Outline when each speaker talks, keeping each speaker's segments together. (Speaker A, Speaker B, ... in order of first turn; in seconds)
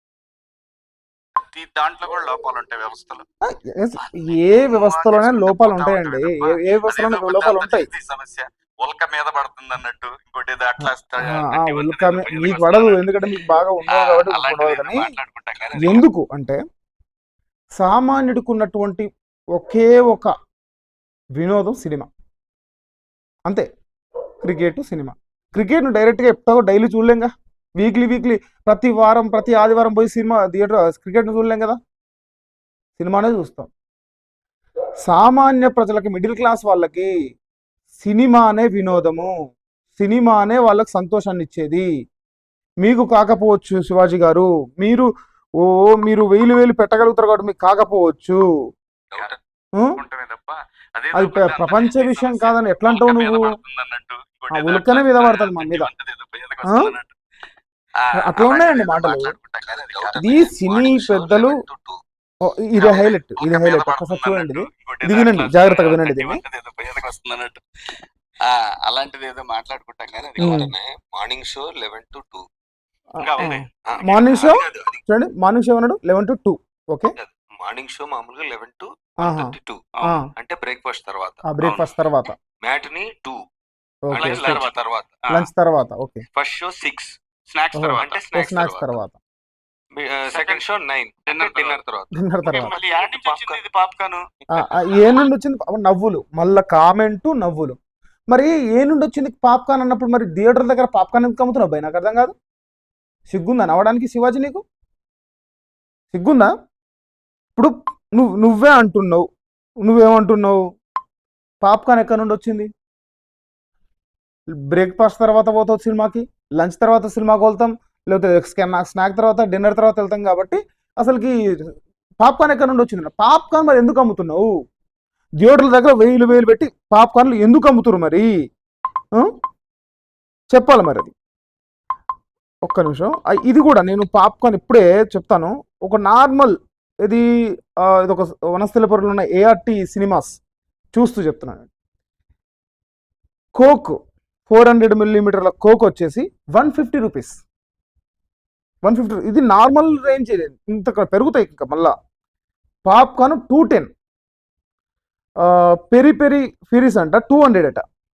Speaker A: 1.5-3.2, 4.0-13.3, 13.8-16.1, 50.0-57.2, 58.0-60.3, 62.8-67.6, 68.4-70.7, 73.2-73.7, 81.6-81.9, 84.2-85.5, 86.3-88.3, 90.2-90.6, 91.3-91.8, 92.5-94.2
Speaker B: 3.4-7.9, 10.8-15.1, 15.8-16.6, 17.8-19.1, 19.6-20.3, 21.4-22.1, 24.4-31.8, 33.0-33.7, 35.0-37.1, 38.0-39.3, 40.0-41.9, 42.8-45.1, 45.6-48.4, 51.1-53.6, 54.5-55.9, 56.7-56.9, 58.2-59.3, 60.2-61.6, 62.4-66.4, 70.4-70.7, 73.2-77.1, 79.2-80.3, 81.5-82.4, 84.1-84.6, 85.3-86.2, 87.8-89.2, 92.2-92.7, 94.5-97.8, 98.3-102.3, 103.3-104.6, 106.1-106.5, 107.5-109.3, 109.8-110.6, 111.6-112.7, 114.7-121.3, 122.2-124.5, 125.4-128.3, 130.5-131.1, 132.7-137.2, 137.8-140.4, 140.9-141.7, 143.6-147.4, 148.8-151.9, 152.9-153.9, 155.4-157.8
Speaker C: 59.9-62.0, 70.3-72.5, 73.9-75.0, 77.2-79.8, 80.4-81.4, 82.6-83.4, 84.1-85.1, 88.0-88.9, 90.0-93.6, 94.5-95.1